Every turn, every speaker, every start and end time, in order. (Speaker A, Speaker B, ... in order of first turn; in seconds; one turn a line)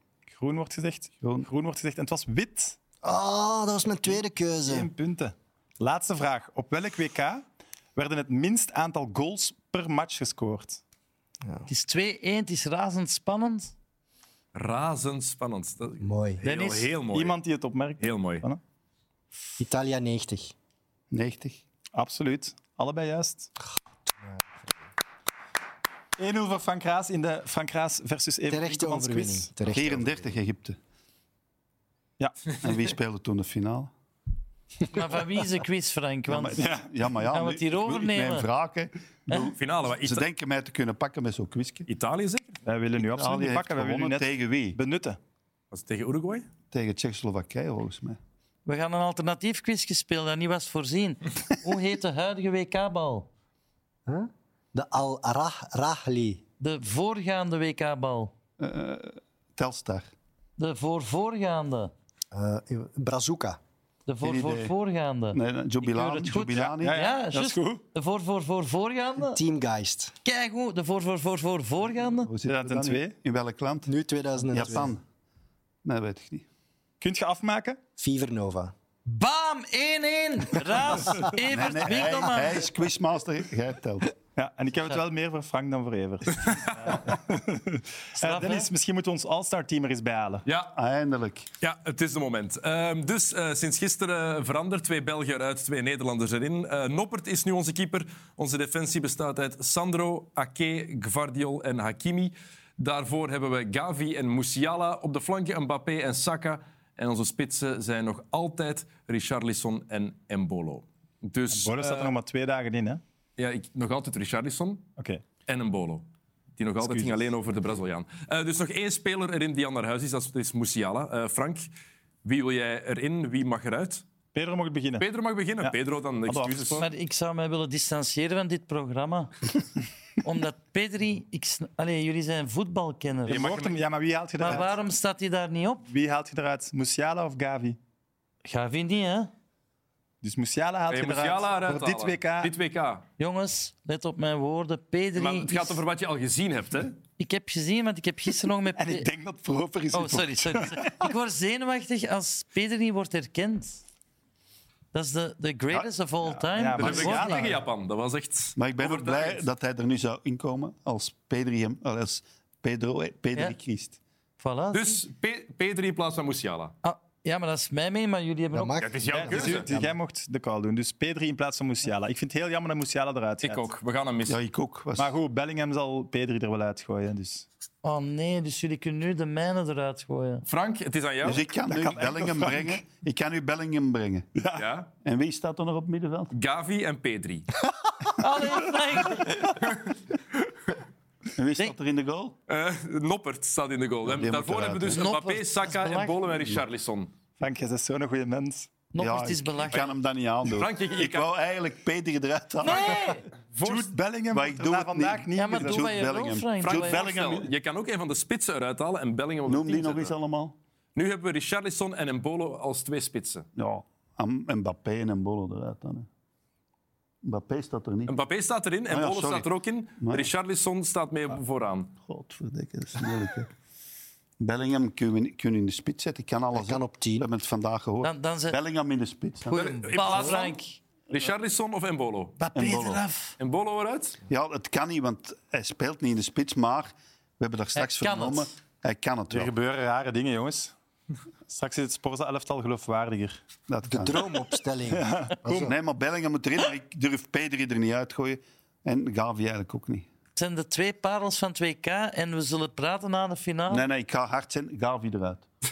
Speaker A: 0.3-2.8
Speaker B: 1.2-1.5
Speaker C: 3.0-4.9
Speaker A: 4.1-10.8
Speaker C: 11.4-11.7
Speaker D: 11.7-13.7
Speaker E: 14.5-17.4
Speaker C: 16.0-16.4
Speaker D: 16.4-17.0
Speaker A: 17.1-18.6
Speaker E: 18.0-18.4
Speaker C: 19.6-20.5
Speaker B: 21.1-21.6
Speaker A: 21.9-23.5
Speaker C: 24.1-24.4
Speaker A: 26.2-29.5
Speaker C: 28.5-30.3
Speaker B: 29.7-30.8
Speaker B: 32.6-33.9
Speaker D: 34.9-36.7
Speaker B: 36.3-41.9
Speaker A: 36.6-36.9
Speaker D: 37.3-38.5
Speaker E: 39.5-40.3
Speaker E: 41.9-42.6
Speaker A: 42.7-45.2
Speaker B: 43.0-44.8
Speaker E: 45.7-46.5
Speaker B: 46.7-48.2
Speaker D: 48.7-53.3
Speaker C: 54.1-56.4
Speaker D: 56.6-58.3
Speaker B: 58.6-60.1
Speaker D: 60.6-61.9
Speaker C: 62.3-63.6
Speaker D: 64.1-69.4
Speaker B: 64.2-64.7
Speaker B: 65.3-67.0
Speaker A: 66.5-67.8
Speaker C: 69.2-70.1
Speaker D: 70.2-72.3
Speaker B: 72.2-73.9
Speaker A: 72.5-73.2
Speaker C: 73.9-74.9
Speaker B: 74.5-75.0
Speaker B: 75.8-76.5
Speaker A: 77.0-77.8
Speaker C: 78.0-78.7
Speaker D: 79.1-82.7
Speaker B: 81.5-84.1
Speaker A: 84.4-90.5
Speaker D: 88.2-88.7
Speaker E: 90.5-90.7
Speaker B: 90.7-91.5
Speaker E: 91.6-112.1
Speaker A: 111.5-113.0
Speaker E: 113.4-114.9
Speaker A: 115.0-115.2
Speaker E: 115.5-116.1
Speaker E: 116.6-121.7
Speaker A: 116.8-117.3
Speaker E: 122.2-124.0
Speaker A: 124.3-125.1
Speaker E: 125.0-126.9
Speaker A: 125.6-126.9
Speaker D: 126.8-129.6
Speaker D: 130.2-133.7
Speaker A: 133.3-134.7
Speaker D: 134.4-135.9
Speaker A: 135.9-137.8
Speaker D: 138.4-139.3
Speaker A: 140.2-142.5
Speaker E: 140.9-143.1
Speaker D: 143.2-145.8
Speaker E: 145.2-147.0
Speaker D: 147.2-149.1
Speaker A: 148.8-151.1
Speaker D: 149.9-153.8
Speaker D: 154.9-157.5
Speaker A: 156.2-157.6
Speaker E: 156.8-159.5
Speaker B: 158.6-164.0
Speaker D: 164.4-165.0
Speaker E: 164.7-166.7
Speaker D: 166.8-168.8
Speaker C: 168.5-169.9
Speaker E: 168.8-169.7
Speaker A: 169.2-173.7
Speaker E: 173.4-174.4
Speaker B: 174.3-175.1
Speaker A: 175.0-177.5
Speaker D: 177.8-180.4
Speaker E: 180.4-181.4
Speaker B: 181.2-184.3
Speaker A: 181.7-182.8
Speaker A: 184.4-184.7
Speaker E: 184.6-184.9
Speaker B: 185.0-186.3
Speaker E: 186.3-187.5
Speaker D: 188.2-189.6
Speaker A: 189.2-189.5
Speaker E: 189.4-189.9
Speaker B: 191.3-192.4
Speaker E: 192.5-197.1
Speaker B: 194.1-195.1
Speaker D: 194.9-196.2
Speaker A: 197.4-198.7
Speaker D: 198.9-199.9
Speaker B: 199.0-207.5
Speaker E: 200.4-201.3
Speaker D: 202.6-203.3
Speaker A: 203.5-205.9
Speaker D: 205.4-207.1
Speaker E: 206.6-210.1
Speaker B: 209.4-210.6
Speaker E: 210.9-213.5
Speaker B: 213.6-216.1
Speaker B: 217.2-218.2
Speaker E: 218.1-221.9
Speaker B: 218.9-220.3
Speaker B: 222.0-223.5
Speaker B: 224.4-230.4
Speaker C: 226.5-227.3
Speaker D: 228.0-228.6
Speaker D: 229.5-230.8
Speaker E: 229.7-230.6
Speaker E: 231.1-232.4
Speaker D: 232.4-233.3
Speaker B: 232.5-233.0
Speaker E: 233.4-234.2
Speaker B: 234.3-239.5
Speaker D: 237.8-238.5
Speaker A: 239.3-240.7
Speaker A: 241.5-243.4
Speaker B: 243.7-244.2
Speaker C: 243.8-245.8
Speaker A: 244.9-245.7
Speaker B: 245.5-250.1
Speaker D: 250.4-253.8
Speaker B: 253.7-255.5